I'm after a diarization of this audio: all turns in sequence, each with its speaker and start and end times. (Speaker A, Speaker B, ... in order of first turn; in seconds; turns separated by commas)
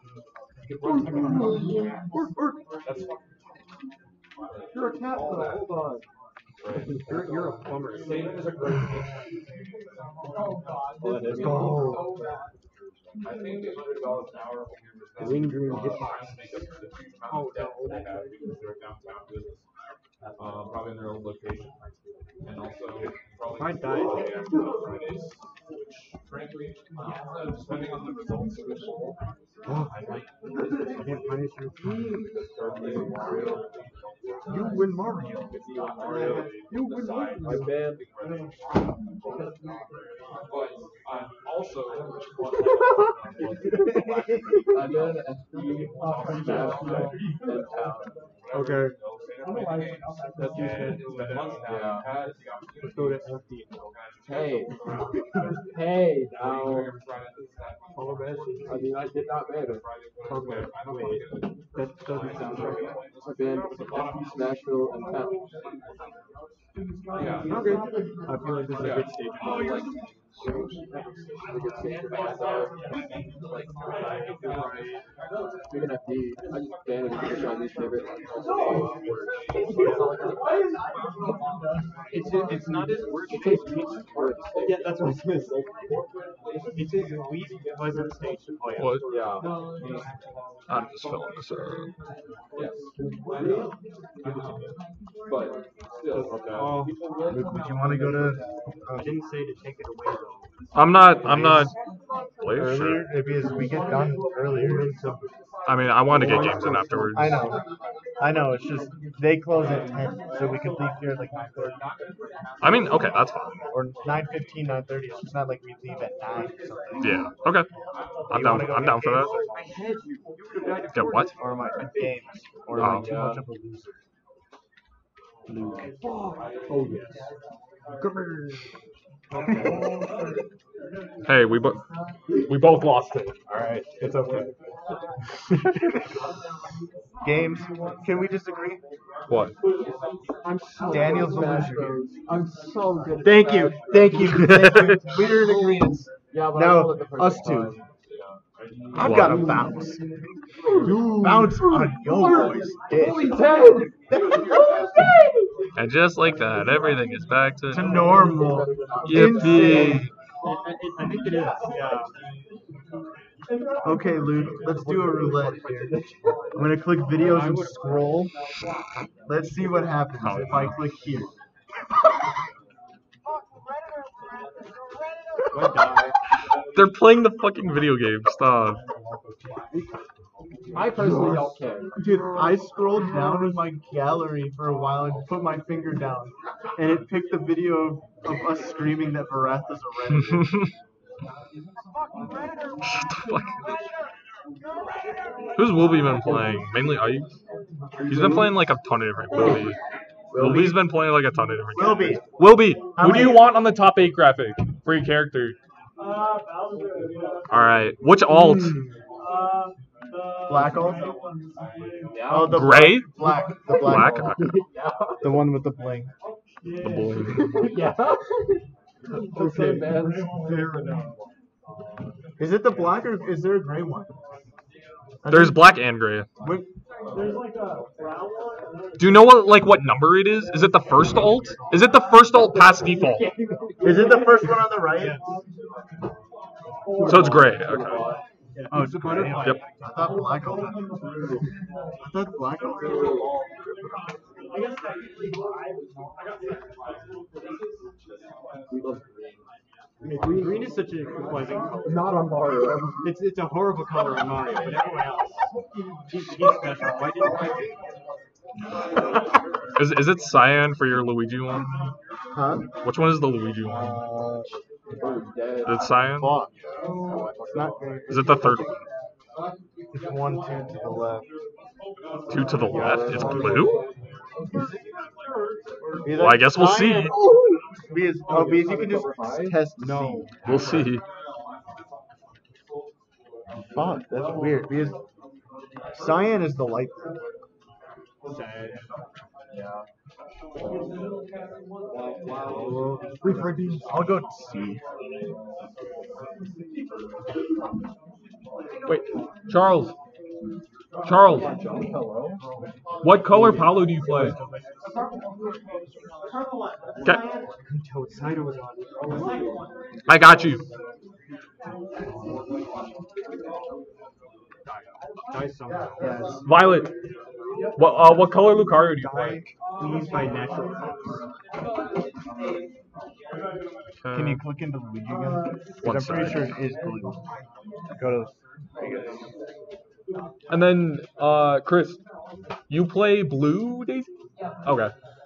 Speaker A: 0.6-3.7, Speaker B: 1.1-2.5, Speaker A: 4.4-6.0, Speaker B: 4.7-6.1, Speaker A: 6.6-10.5, Speaker B: 6.8-7.0, Speaker C: 7.1-8.4, Speaker B: 11.0-13.2, Speaker C: 11.0-11.8, Speaker D: 11.3-12.2, Speaker A: 13.2-19.6, Speaker C: 15.2-16.5, Speaker B: 15.2-16.1, Speaker C: 17.3-18.2, Speaker A: 20.4-29.2, Speaker C: 23.5-24.3, Speaker A: 29.7-31.4, Speaker C: 31.0-32.2, Speaker A: 31.9-35.0, Speaker B: 32.8-33.1, Speaker D: 34.6-35.6, Speaker B: 35.5-38.1, Speaker A: 35.6-38.9, Speaker C: 37.3-37.7, Speaker A: 40.4-45.2, Speaker C: 43.7-44.6, Speaker B: 44.6-48.2, Speaker A: 45.8-47.1, Speaker A: 48.4-55.5, Speaker C: 48.5-49.0, Speaker E: 49.6-51.0, Speaker C: 50.4-51.8, Speaker B: 51.6-52.1, Speaker C: 52.8-53.9, Speaker B: 54.2-54.8, Speaker B: 55.4-57.0, Speaker A: 56.3-65.0, Speaker C: 58.0-58.8, Speaker B: 58.6-59.8, Speaker C: 60.2-63.0, Speaker B: 63.2-65.4, Speaker A: 67.1-67.7, Speaker C: 67.5-69.6, Speaker A: 68.7-69.9, Speaker B: 71.5-72.9, Speaker A: 73.5-73.8, Speaker C: 74.2-75.0, Speaker A: 74.3-75.0, Speaker B: 75.7-80.7, Speaker A: 79.3-80.1, Speaker B: 82.2-85.2, Speaker A: 82.2-84.4, Speaker C: 84.6-85.7, Speaker C: 86.7-89.1, Speaker A: 88.8-90.0, Speaker B: 89.1-90.0, Speaker F: 90.7-91.9, Speaker A: 92.6-93.7, Speaker B: 92.6-93.7, Speaker A: 94.2-94.7, Speaker A: 95.3-96.9, Speaker B: 96.2-98.5, Speaker C: 96.3-97.0, Speaker D: 97.3-99.2, Speaker C: 98.9-100.5, Speaker F: 100.8-101.7, Speaker D: 101.2-101.7, Speaker F: 102.4-103.1, Speaker D: 102.5-105.2, Speaker B: 103.8-105.2, Speaker F: 105.7-107.4, Speaker B: 106.1-107.2, Speaker D: 106.2-107.6, Speaker A: 106.3-106.9, Speaker D: 108.2-111.8, Speaker F: 112.6-113.6, Speaker A: 112.7-113.2, Speaker D: 113.7-117.2, Speaker F: 117.0-117.7, Speaker A: 118.0-118.9, Speaker F: 118.3-119.3, Speaker D: 118.3-119.6, Speaker B: 119.5-121.2, Speaker A: 120.7-121.3, Speaker F: 120.9-121.3, Speaker D: 121.4-124.0, Speaker F: 122.8-123.1, Speaker B: 122.8-123.5, Speaker B: 126.0-126.4, Speaker A: 126.3-126.8, Speaker C: 126.7-127.1, Speaker B: 128.1-128.4, Speaker C: 129.3-129.8, Speaker F: 131.2-131.8, Speaker F: 132.4-133.4, Speaker A: 133.6-134.5, Speaker D: 137.2-138.8, Speaker B: 140.4-144.7, Speaker D: 140.9-142.1, Speaker D: 143.2-147.8, Speaker F: 144.4-145.0, Speaker B: 146.3-147.8, Speaker A: 148.1-149.3, Speaker D: 148.9-150.3, Speaker F: 149.0-149.6, Speaker B: 150.8-155.5, Speaker D: 150.8-154.9, Speaker F: 155.8-157.9, Speaker D: 157.7-160.1, Speaker B: 157.8-160.1, Speaker F: 159.1-160.1, Speaker C: 160.4-162.1, Speaker D: 163.8-166.0, Speaker B: 164.7-166.8, Speaker D: 166.5-168.3, Speaker C: 167.2-167.8, Speaker D: 169.2-171.3, Speaker F: 170.2-170.8, Speaker C: 175.6-176.1, Speaker F: 176.7-178.8, Speaker C: 179.1-179.8, Speaker B: 180.7-182.0, Speaker D: 181.0-190.6, Speaker F: 192.9-193.6, Speaker F: 195.6-197.3, Speaker F: 198.0-199.8, Speaker D: 200.3-200.9, Speaker F: 200.3-205.6, Speaker D: 201.7-202.2, Speaker D: 202.9-203.5, Speaker E: 206.0-207.3, Speaker F: 207.5-208.9, Speaker E: 209.3-211.7, Speaker D: 210.4-211.1, Speaker B: 212.1-212.7, Speaker D: 212.3-214.5, Speaker F: 212.5-213.2, Speaker B: 213.7-215.4, Speaker F: 213.8-214.6, Speaker D: 215.2-216.1, Speaker E: 216.6-217.6, Speaker F: 216.8-217.7, Speaker B: 217.5-221.3, Speaker C: 219.4-219.9, Speaker E: 219.6-220.6, Speaker D: 222.4-224.1, Speaker D: 225.2-225.7, Speaker F: 225.3-226.3, Speaker D: 226.4-226.7, Speaker E: 227.1-229.1, Speaker F: 228.9-233.3, Speaker B: 232.3-234.4, Speaker D: 233.8-235.2, Speaker B: 237.0-238.2, Speaker F: 237.0-238.2, Speaker E: 237.1-237.7, Speaker C: 238.6-239.7, Speaker D: 238.7-241.0, Speaker F: 239.4-239.6, Speaker B: 241.0-241.4, Speaker D: 242.0-243.2, Speaker B: 242.7-243.5, Speaker E: 244.5-246.6, Speaker B: 248.7-250.9, Speaker C: 250.0-252.1, Speaker B: 251.8-253.1, Speaker C: 253.0-255.5, Speaker C: 256.1-257.6, Speaker F: 259.8-261.9, Speaker D: 262.3-262.7, Speaker F: 262.8-264.0, Speaker D: 263.7-264.5, Speaker B: 264.9-266.0, Speaker F: 265.6-266.4, Speaker D: 266.1-266.7, Speaker B: 267.1-267.9, Speaker D: 267.5-268.7, Speaker F: 268.1-268.8, Speaker D: 269.9-271.3, Speaker F: 272.3-273.8, Speaker B: 272.6-273.9, Speaker D: 272.8-273.6, Speaker B: 274.4-274.9, Speaker D: 276.0-277.2, Speaker F: 276.2-277.2, Speaker B: 277.2-277.6, Speaker D: 277.9-280.4, Speaker B: 278.2-279.6, Speaker F: 280.4-281.0, Speaker D: 283.7-285.0, Speaker D: 285.9-287.2, Speaker C: 288.2-288.9, Speaker B: 289.6-289.8, Speaker B: 291.9-293.9, Speaker D: 292.5-294.8, Speaker F: 298.9-299.9, Speaker F: 301.1-301.5, Speaker B: 301.3-302.4, Speaker F: 303.0-304.4, Speaker C: 303.3-304.8, Speaker C: 307.6-309.1, Speaker B: 309.0-309.5, Speaker F: 310.1-310.6, Speaker C: 314.7-316.4, Speaker D: 315.9-316.4, Speaker F: 316.4-316.9, Speaker F: 317.8-319.5, Speaker C: 319.8-321.2, Speaker F: 324.0-324.4, Speaker D: 324.1-327.2, Speaker F: 325.8-326.5, Speaker D: 327.9-329.3, Speaker F: 330.5-332.0, Speaker F: 332.7-334.1, Speaker F: 334.6-334.9